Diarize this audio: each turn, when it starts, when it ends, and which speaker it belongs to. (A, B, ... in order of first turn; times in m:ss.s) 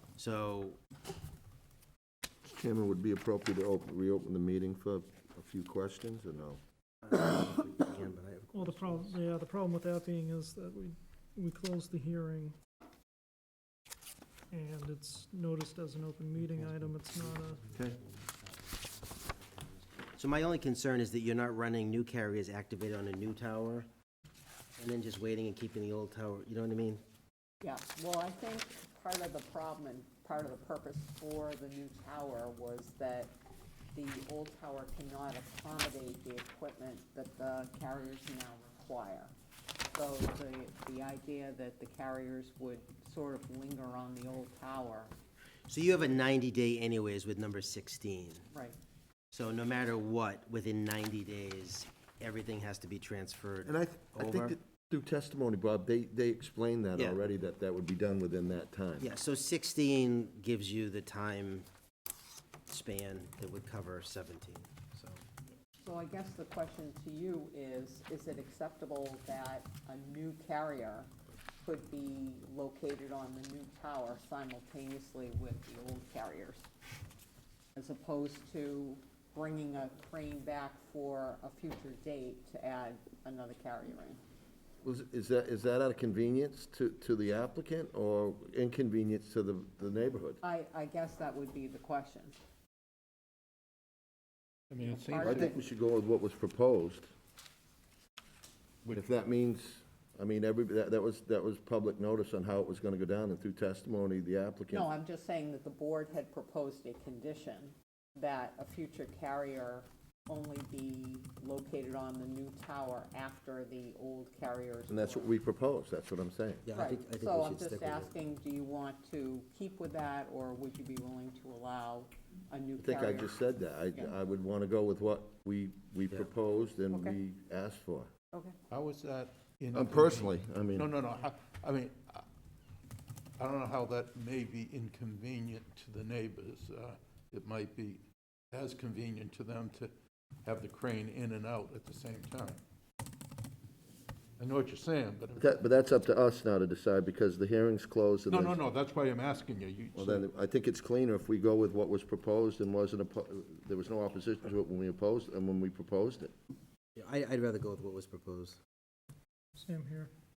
0:00.2-0:00.8 A
0:02.5-0:06.6 B
0:07.0-0:09.2 A
0:08.5-0:12.6 C
0:14.5-0:17.6 C
0:16.5-0:23.9 A
0:24.8-0:27.0 A
0:27.6-0:33.4 D
0:33.9-0:39.3 D
0:39.9-0:45.1 D
0:45.7-0:48.5 A
0:48.5-0:48.8 D
0:49.3-0:54.6 A
0:53.7-0:59.1 B
0:59.0-1:01.7 A
1:02.7-1:05.2 A
1:05.8-1:11.1 D
1:11.6-1:16.7 D
1:17.8-1:24.2 D
1:24.8-1:30.4 B
1:30.4-1:32.4 D
1:34.7-1:35.3 E
1:34.8-1:35.6 D
1:35.2-1:37.1 B
1:38.9-1:44.9 B
1:44.7-1:55.4 D
1:54.9-1:56.6 B
1:56.6-1:58.2 A
1:56.7-2:03.4 D
2:02.8-2:08.1 B
2:06.9-2:07.2 D
2:08.3-2:08.6 D
2:08.7-2:12.3 E
2:09.7-2:10.9 B
2:13.4-2:19.9 E
2:20.4-2:22.6 E
2:24.4-2:25.6 E
2:25.4-2:28.6 B
2:28.3-2:30.2 E
2:30.0-2:36.3 B
2:37.0-2:38.6 A
2:39.6-2:40.1 C